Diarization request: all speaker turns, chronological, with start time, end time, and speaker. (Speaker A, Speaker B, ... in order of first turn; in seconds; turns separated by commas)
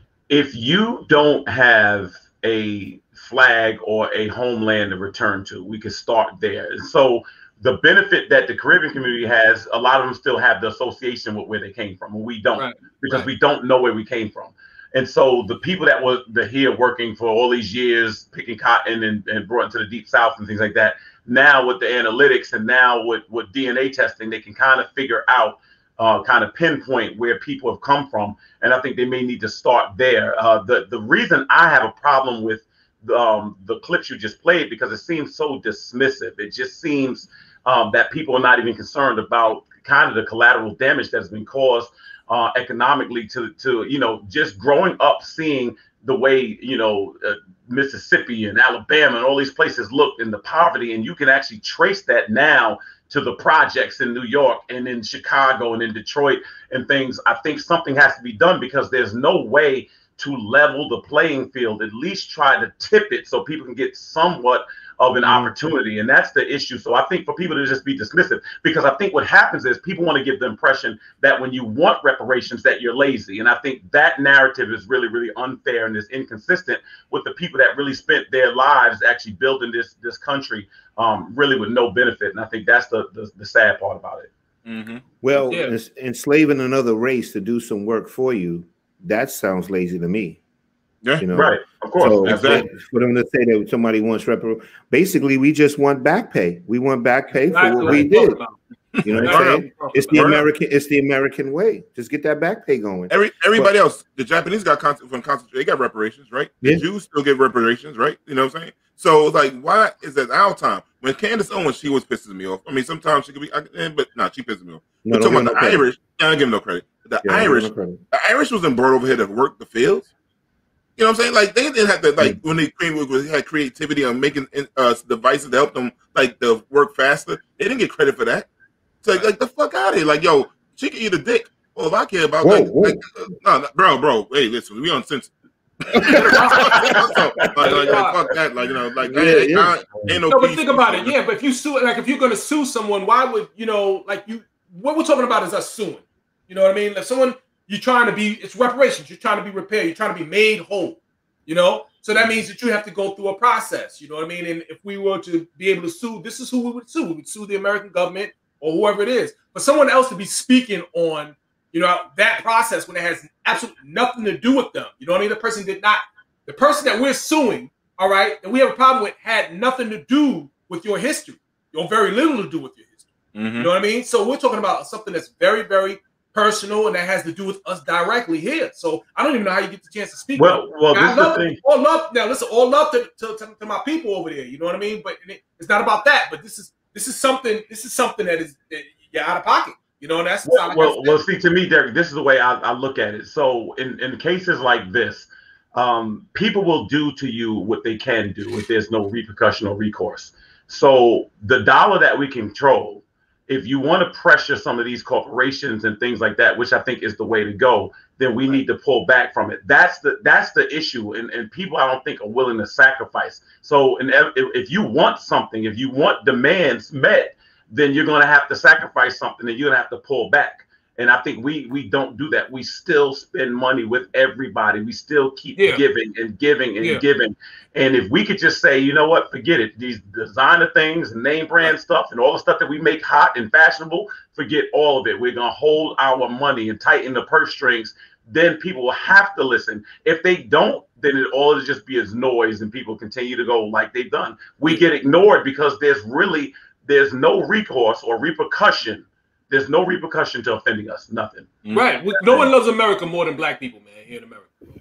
Speaker A: 0.3-84.3, Speaker B: 12.6-13.3, Speaker C: 84.7-85.0, Speaker D: 85.2-90.4, Speaker B: 85.5-85.7, Speaker D: 91.2-98.4, Speaker A: 91.3-92.7, Speaker C: 92.2-92.6, Speaker B: 97.3-98.6, Speaker C: 99.0-100.4, Speaker D: 99.0-103.7, Speaker B: 99.2-100.4, Speaker C: 103.1-120.1, Speaker D: 115.1-115.8, Speaker D: 117.2-118.0, Speaker C: 121.0-128.5, Speaker C: 129.0-135.3, Speaker D: 132.4-133.0, Speaker C: 135.9-141.1, Speaker B: 136.1-138.2, Speaker A: 136.6-137.1, Speaker D: 139.1-140.2, Speaker B: 140.3-173.1, Speaker C: 173.3-173.7, Speaker B: 173.6-191.2, Speaker A: 180.4-181.6, Speaker A: 190.4-251.5, Speaker B: 225.6-225.8, Speaker C: 251.6-252.4, Speaker B: 251.7-254.5